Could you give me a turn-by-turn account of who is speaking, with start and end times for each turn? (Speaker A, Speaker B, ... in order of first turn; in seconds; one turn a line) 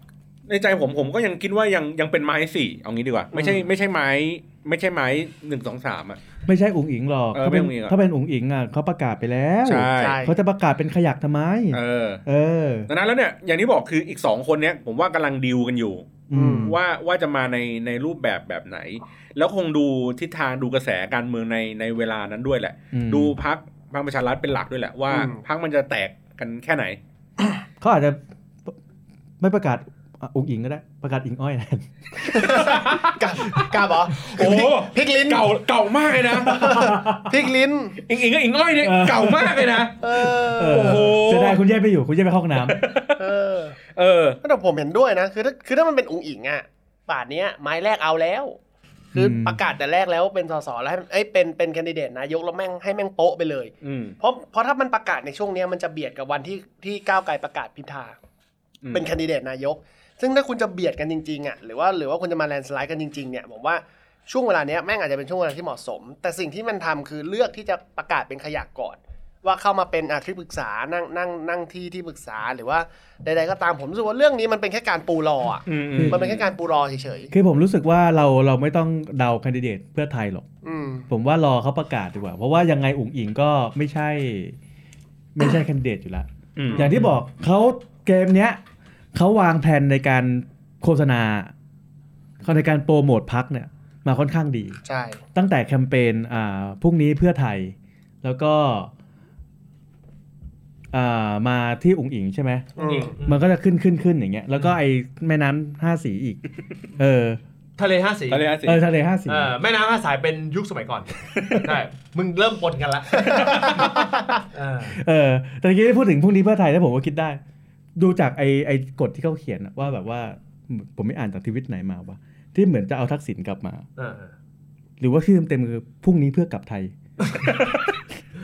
Speaker A: 0.5-6.2
Speaker B: 3.4-3.6
Speaker C: 6.5-12.9
Speaker A: 7.3-8.0
Speaker A: 9.7-10.2
Speaker B: 10.0-10.3
Speaker A: 11.7-12.2
Speaker A: 12.9-27.0
Speaker C: 16.3-16.8
Speaker B: 16.3-16.7
Speaker C: 22.9-23.4
Speaker B: 25.1-25.4
Speaker C: 27.8-28.8
Speaker C: 29.4-32.8
Speaker B: 32.3-35.5
Speaker A: 32.4-33.6
Speaker A: 34.2-36.8
Speaker C: 36.4-37.3
Speaker B: 36.4-38.0
Speaker A: 38.0-41.6
Speaker C: 38.8-39.9
Speaker B: 40.0-41.1
Speaker C: 40.6-42.9
Speaker A: 42.6-43.3
Speaker B: 43.2-43.8
Speaker A: 44.0-44.4
Speaker B: 44.4-48.6
Speaker C: 49.1-49.6
Speaker B: 49.1-58.2
Speaker A: 53.8-54.2
Speaker A: 58.8-59.1
Speaker B: 58.9-77.3
Speaker A: 75.7-76.5
Speaker C: 75.9-76.2
Speaker C: 77.3-80.5
Speaker B: 80.6-81.1
Speaker C: 81.1-84.6
Speaker C: 85.3-88.6
Speaker A: 86.6-86.9
Speaker C: 89.1-91.5
Speaker C: 92.4-94.8
Speaker B: 94.8-95.2
Speaker C: 95.3-98.9
Speaker C: 100.9-102.7
Speaker B: 102.8-103.2
Speaker D: 102.8-103.4
Speaker C: 103.2-106.4
Speaker C: 107.0-107.4
Speaker D: 107.8-108.5
Speaker A: 108.3-108.8
Speaker C: 108.6-109.5
Speaker D: 109.3-113.9
Speaker A: 113.3-113.9
Speaker C: 113.7-114.1
Speaker D: 114.5-115.0
Speaker C: 114.9-117.4
Speaker C: 118.0-123.9
Speaker D: 124.0-124.3
Speaker C: 125.0-128.0